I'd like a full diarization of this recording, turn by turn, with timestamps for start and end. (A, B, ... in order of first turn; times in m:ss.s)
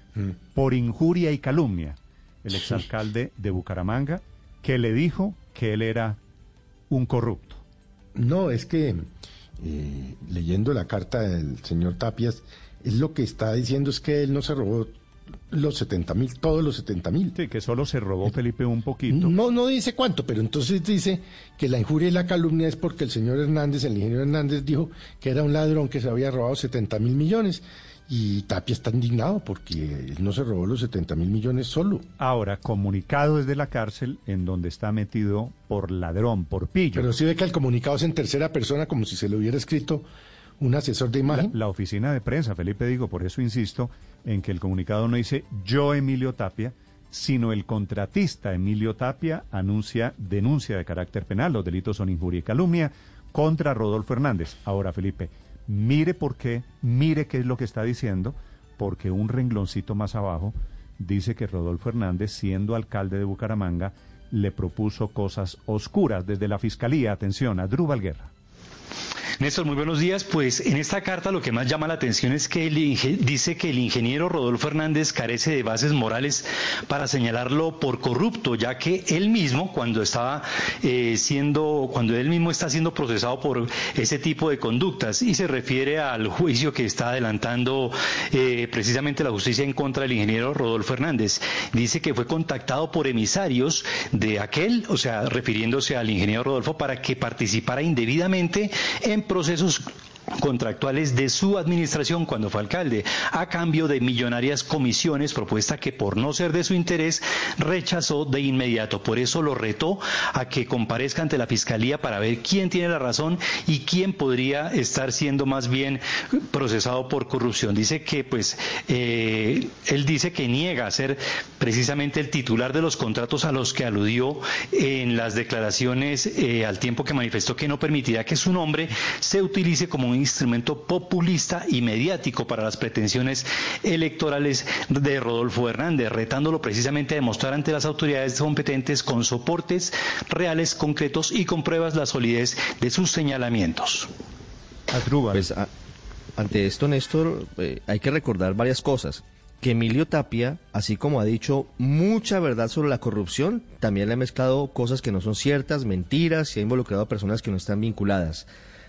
0:00.5-0:06.2 A
0:06.9-0:07.6 A
0:08.2-0:09.0 B
0:09.6-0:14.9 B
0:15.5-0:17.4 B
0:17.4-0:19.3 A
0:19.1-0:32.0 B
0:32.2-0:37.1 A
0:36.9-0:40.1 B
0:40.6-0:41.5 B
0:41.3-1:08.3 A
1:09.4-1:39.9 C
1:40.4-2:24.1 C
2:24.9-2:25.5 A
2:25.3-2:25.7 D
2:26.4-2:38.5 D